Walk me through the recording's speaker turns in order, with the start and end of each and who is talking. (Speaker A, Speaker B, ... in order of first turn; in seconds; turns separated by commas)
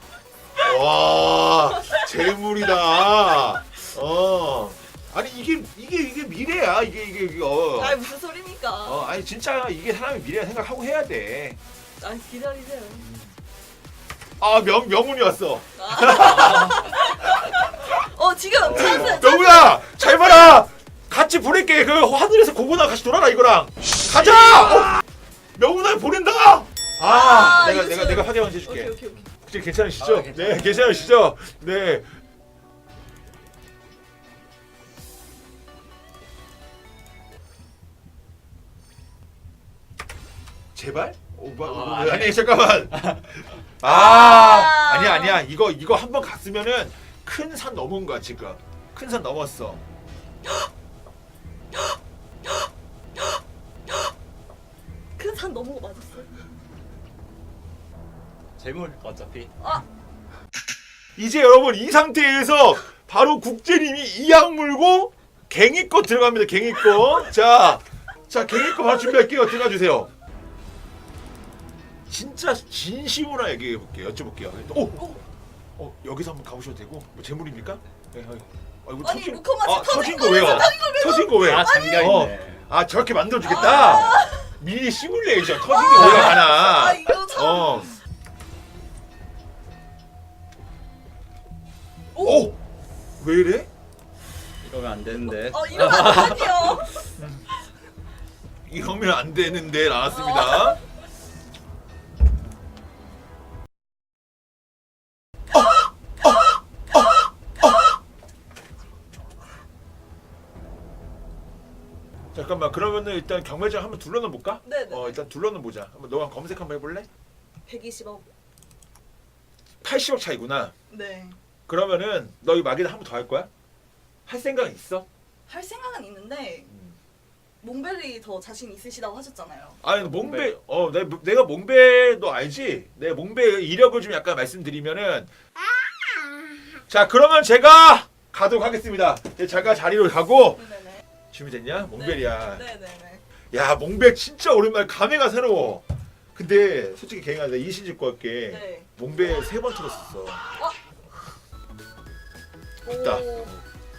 Speaker A: 0.6-8.0, Speaker B: 1.7-2.0, Speaker B: 7.8-9.1, Speaker A: 8.8-11.6, Speaker B: 12.0-13.1, Speaker A: 13.0-13.3, Speaker A: 14.4-16.8, Speaker B: 15.8-20.5, Speaker A: 18.7-25.0, Speaker B: 24.2-25.0, Speaker A: 25.5-32.1, Speaker B: 27.0-29.3, Speaker C: 30.0-31.0, Speaker A: 40.7-49.8, Speaker C: 41.6-42.4, Speaker B: 43.8-45.4, Speaker B: 52.5-54.1, Speaker B: 55.2-56.3, Speaker C: 58.6-59.5, Speaker A: 61.1-70.1, Speaker A: 72.1-75.2, Speaker A: 75.8-88.0, Speaker B: 79.0-82.2, Speaker C: 81.4-82.7, Speaker B: 83.4-84.5, Speaker C: 83.6-84.2, Speaker B: 85.6-87.9, Speaker B: 92.1-92.5, Speaker A: 92.2-92.6, Speaker A: 93.2-93.7, Speaker C: 94.6-96.8, Speaker B: 95.3-97.1, Speaker A: 97.2-97.4, Speaker A: 98.7-100.8, Speaker B: 100.0-100.8, Speaker A: 106.2-107.1, Speaker A: 112.3-117.1, Speaker B: 114.6-115.2, Speaker B: 117.7-118.3, Speaker A: 119.8-120.7, Speaker B: 120.9-121.4, Speaker A: 121.7-123.5, Speaker A: 124.2-125.0, Speaker B: 125.5-126.7, Speaker B: 127.6-129.8, Speaker A: 129.8-135.3, Speaker C: 130.1-130.4, Speaker A: 136.9-140.6, Speaker B: 140.6-141.0, Speaker A: 141.3-142.6, Speaker B: 141.9-143.2, Speaker A: 143.5-150.4, Speaker B: 148.5-148.9, Speaker B: 152.8-153.5, Speaker A: 152.9-153.5